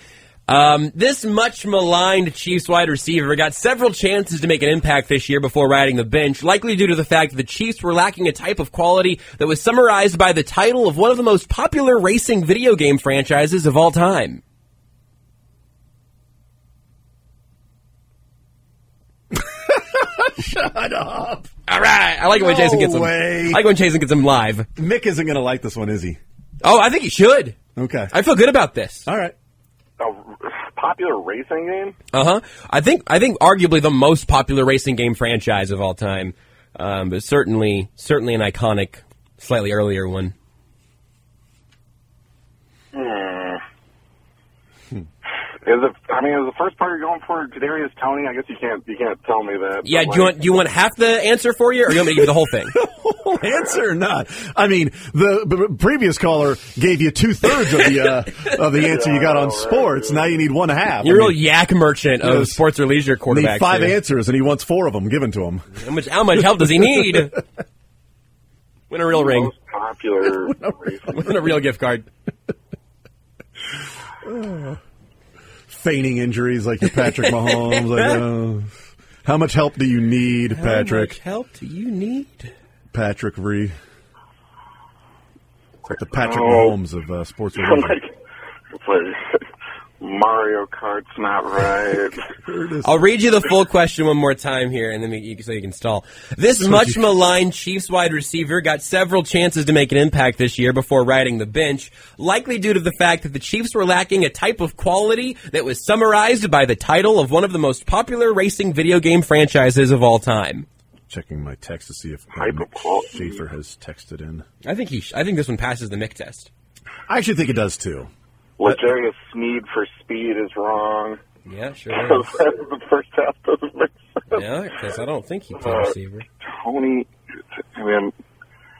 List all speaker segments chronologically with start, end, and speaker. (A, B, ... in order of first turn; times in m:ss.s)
0:00.5-0:14.4 A
0:19.3-0:21.5 B
0:21.7-0:24.7 A
0:22.3-0:23.7 B
0:24.8-0:26.2 B
0:26.6-0:27.6 A
0:27.8-0:28.1 B
0:28.1-0:29.1 A
0:29.0-0:29.3 B
0:30.0-0:32.0 C
0:32.1-0:40.3 A
0:42.9-0:43.6 C
0:45.6-0:50.5 C
0:49.8-0:52.7 A
0:52.7-1:01.4 B
0:58.7-1:00.3 C
1:01.0-1:04.0 A
1:02.2-1:02.6 B
1:03.3-1:05.7 B
1:05.8-1:07.4 A
1:08.9-1:09.5 A
1:09.1-1:11.1 C
1:10.5-1:10.8 B
1:11.1-1:12.1 A
1:14.2-1:14.8 B
1:15.7-1:21.2 B
1:17.1-1:18.2 A
1:20.5-1:22.5 A
1:22.9-1:23.8 B
1:25.9-1:28.0 B
1:26.2-1:26.7 C
1:27.6-1:28.1 C
1:28.8-1:29.4 C
1:30.0-1:32.2 C
1:32.4-1:33.0 B
1:32.8-1:50.6 A
1:36.6-1:37.0 B
1:51.1-1:54.4 B
1:52.4-1:53.4 C
1:54.6-1:56.5 A
1:57.1-1:58.1 B
1:58.6-2:01.2 C
2:01.4-2:02.4 A
2:01.9-2:04.4 C
2:04.3-2:06.2 A
2:05.6-2:07.1 C
2:07.7-2:08.1 C